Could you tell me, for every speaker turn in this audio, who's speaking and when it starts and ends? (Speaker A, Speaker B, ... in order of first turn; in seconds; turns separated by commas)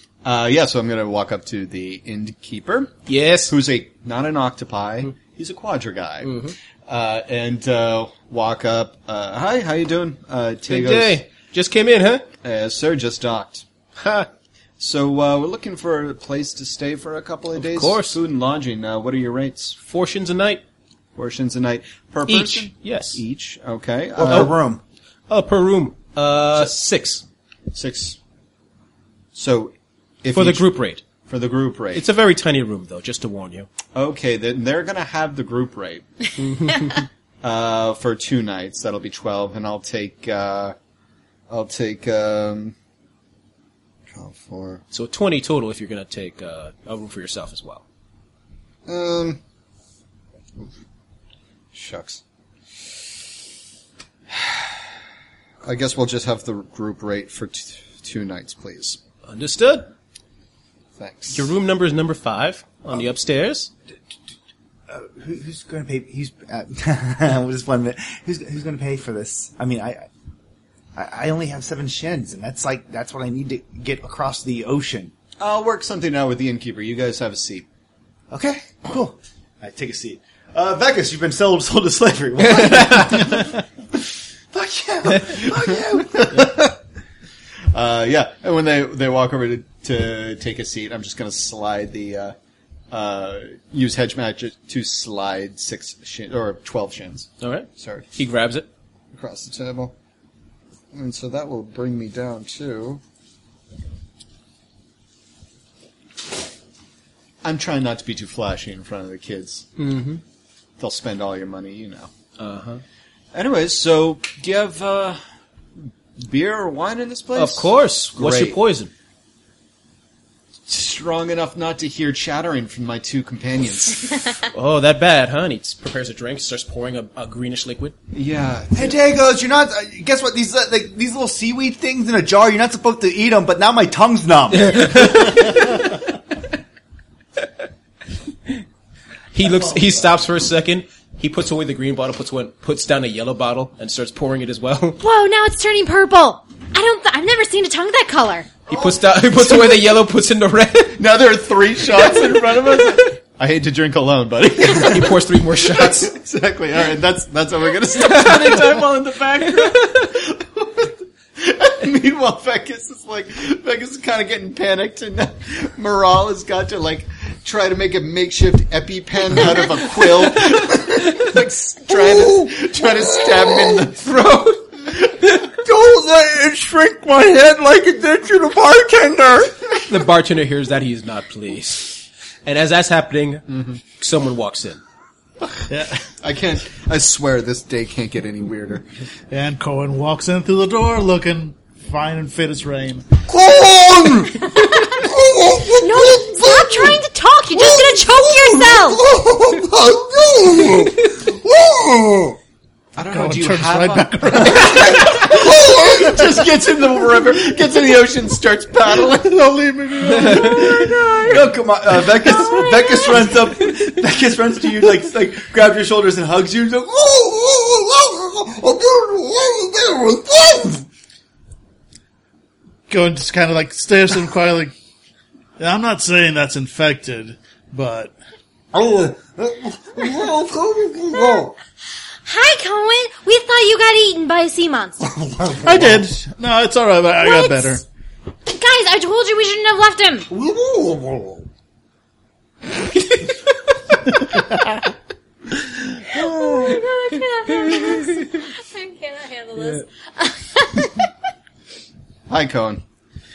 Speaker A: 0.2-3.0, Speaker B: 3.1-3.5, Speaker A: 3.5-11.2, Speaker B: 6.2-6.5, Speaker B: 10.7-12.3, Speaker A: 12.4-13.6, Speaker B: 14.0-14.3, Speaker A: 14.8-19.8, Speaker B: 17.6-18.2, Speaker B: 19.8-20.6, Speaker A: 21.1-24.5, Speaker B: 22.3-23.2, Speaker C: 24.1-24.8, Speaker B: 25.3-27.2, Speaker A: 27.7-28.2, Speaker A: 29.3-30.7, Speaker B: 30.3-31.0, Speaker A: 31.2-32.0, Speaker B: 31.9-33.7, Speaker A: 33.9-36.0, Speaker B: 36.4-36.9, Speaker A: 37.4-40.7, Speaker A: 41.5-42.7, Speaker A: 44.1-44.8, Speaker B: 44.9-47.8, Speaker A: 48.9-49.4, Speaker A: 51.7-52.2, Speaker A: 54.3-54.9, Speaker A: 55.6-59.0, Speaker B: 59.2-59.9, Speaker A: 61.0-61.5, Speaker B: 61.3-63.7, Speaker C: 64.9-70.1, Speaker C: 71.0-75.1, Speaker A: 75.4-77.7, Speaker C: 78.3-83.6, Speaker B: 82.6-82.9, Speaker C: 84.5-86.5, Speaker A: 86.1-86.8, Speaker A: 87.7-92.3, Speaker A: 92.9-98.0, Speaker B: 97.4-98.7, Speaker A: 99.1-99.9, Speaker A: 100.9-103.0, Speaker A: 107.4-109.7, Speaker B: 109.8-110.2, Speaker A: 110.8-112.1, Speaker B: 112.4-112.8, Speaker A: 113.3-115.2, Speaker A: 116.2-118.6, Speaker B: 117.3-118.9, Speaker A: 120.7-124.3, Speaker B: 124.5-128.0, Speaker A: 128.1-129.0, Speaker C: 128.7-135.5, Speaker B: 134.5-136.0, Speaker B: 139.3-145.0, Speaker D: 145.0-148.5, Speaker B: 148.7-151.0, Speaker A: 150.9-175.2, Speaker B: 152.5-152.9, Speaker B: 154.6-156.1, Speaker B: 157.9-158.8, Speaker B: 159.4-160.1, Speaker C: 172.1-172.5, Speaker C: 173.4-173.8, Speaker C: 175.6-179.8, Speaker B: 179.8-184.8, Speaker A: 183.5-183.8, Speaker E: 185.7-186.0, Speaker A: 186.1-188.8, Speaker E: 189.3-193.1, Speaker C: 193.2-197.0, Speaker D: 195.8-199.0, Speaker C: 197.5-202.4, Speaker A: 202.9-209.4, Speaker E: 203.1-205.2, Speaker C: 204.6-206.2, Speaker E: 209.1-211.2, Speaker C: 210.2-220.8, Speaker D: 212.2-213.1, Speaker E: 222.9-224.7, Speaker E: 225.6-228.1, Speaker C: 228.7-231.6, Speaker D: 232.2-235.1, Speaker C: 235.0-236.0, Speaker E: 235.6-237.8, Speaker D: 237.2-237.8, Speaker D: 238.4-240.3, Speaker C: 240.3-241.4, Speaker B: 243.0-243.3, Speaker E: 244.2-244.8, Speaker E: 245.6-246.8, Speaker D: 246.1-251.1, Speaker B: 247.7-248.2, Speaker A: 252.3-252.8